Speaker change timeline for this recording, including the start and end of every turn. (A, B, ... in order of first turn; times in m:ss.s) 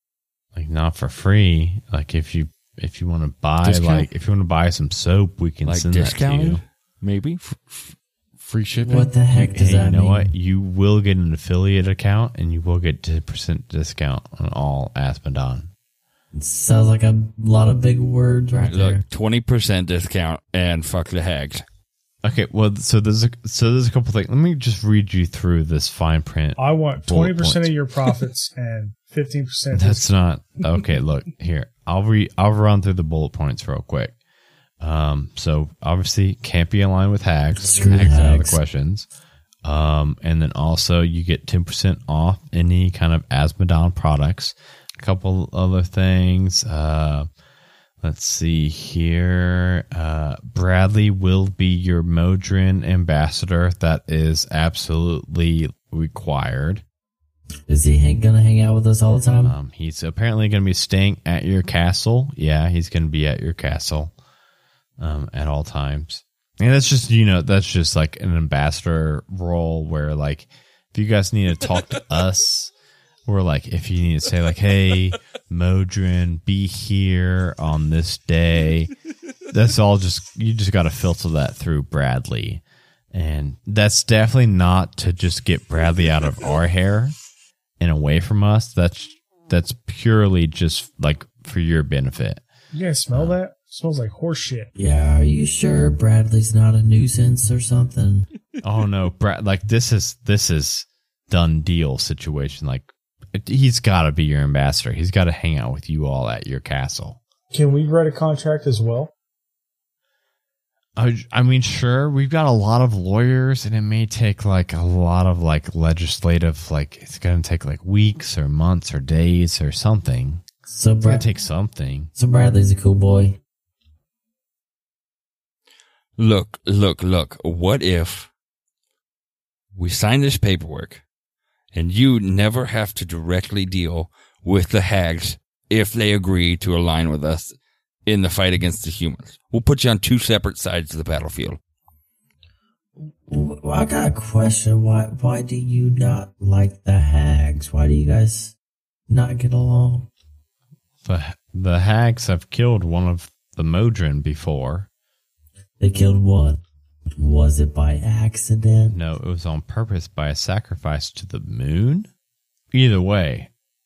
0:00.6-0:06.6 A
0:03.6-0:04.1 B
0:05.6-0:07.4 C
0:07.4-0:09.1 B
0:08.7-0:10.3 D
0:09.6-0:15.7 A
0:16.3-0:19.0 D
0:18.6-0:21.6 C
0:22.2-0:27.7 A
0:26.6-0:30.1 E
0:29.7-0:34.2 A
0:34.8-0:39.1 A
0:37.6-0:38.6 D
0:39.6-0:47.3 A
0:48.0-0:56.8 A
0:57.7-0:59.6 D
0:59.4-1:04.1 A
1:05.0-1:12.7 A
1:13.3-1:18.9 A
1:19.5-1:27.2 A
1:27.8-1:32.4 A
1:32.7-1:34.7 E
1:33.1-1:33.4 A
1:34.8-1:38.3 D
1:38.6-1:47.2 A
1:47.5-1:49.1 E
1:51.0-2:00.4 A
2:00.7-2:01.3 D
2:01.0-2:02.1 A
2:02.2-2:03.4 D
2:06.2-2:08.3 C
2:09.8-2:11.0 C
2:11.7-2:17.6 C
2:18.1-2:21.6 C
2:23.0-2:28.6 D
2:29.1-2:30.1 D
2:31.0-2:34.9 A
2:35.8-2:36.6 D
2:37.2-2:39.0 D
2:38.9-2:42.1 A
2:42.7-2:43.5 A